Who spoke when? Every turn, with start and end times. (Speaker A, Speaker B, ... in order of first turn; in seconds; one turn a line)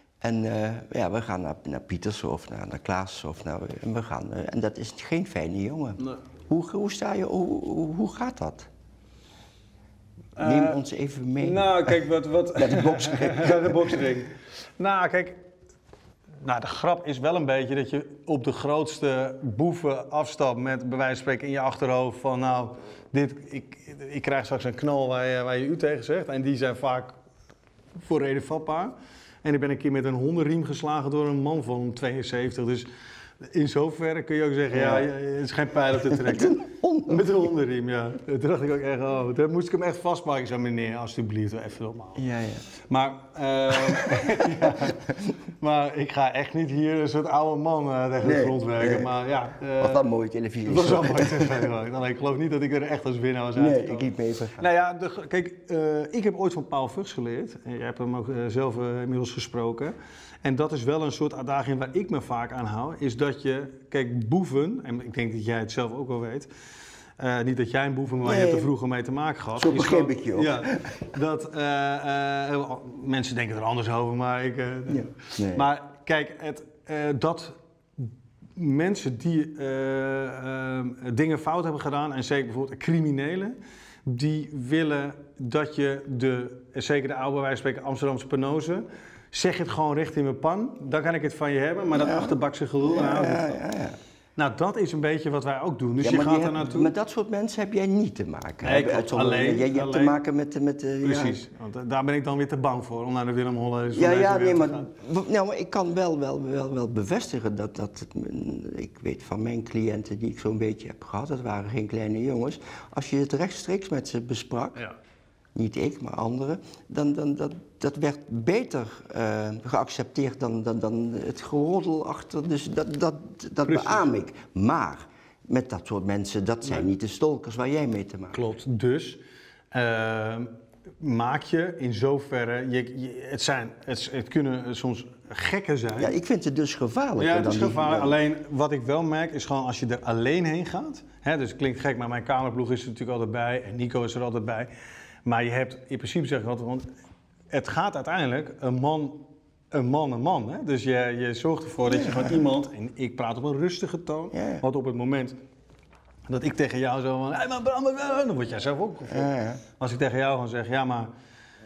Speaker A: 0.2-8.7
Speaker B: 10.4-10.8
Speaker A: 10.4-12.0
Speaker B: 11.4-15.4
Speaker A: 12.5-14.0
Speaker B: 16.4-27.2
Speaker B: 28.0-32.9
Speaker B: 33.5-42.2
Speaker A: 34.7-35.1
Speaker A: 36.1-37.5
Speaker A: 42.2-42.6
Speaker B: 42.9-45.0
Speaker A: 43.8-45.3
Speaker B: 45.6-50.0
Speaker A: 48.2-49.1
Speaker A: 49.8-51.7
Speaker B: 50.6-66.5
Speaker A: 53.5-54.6
Speaker B: 67.2-93.6
Speaker A: 68.2-68.7
Speaker A: 69.5-71.0
Speaker A: 74.9-75.6
Speaker A: 91.9-94.0
Speaker B: 94.3-96.9
Speaker A: 96.0-101.4
Speaker B: 98.6-100.2
Speaker B: 101.0-104.9
Speaker A: 103.9-114.8
Speaker A: 115.5-128.4
Speaker B: 123.7-124.0
Speaker B: 128.3-129.2
Speaker B: 129.7-130.5
Speaker B: 131.0-136.1
Speaker A: 136.0-138.2
Speaker B: 137.2-144.7
Speaker B: 145.2-146.9
Speaker B: 147.5-155.4
Speaker A: 151.8-152.4
Speaker A: 154.3-154.6
Speaker B: 156.3-161.1
Speaker A: 159.1-159.6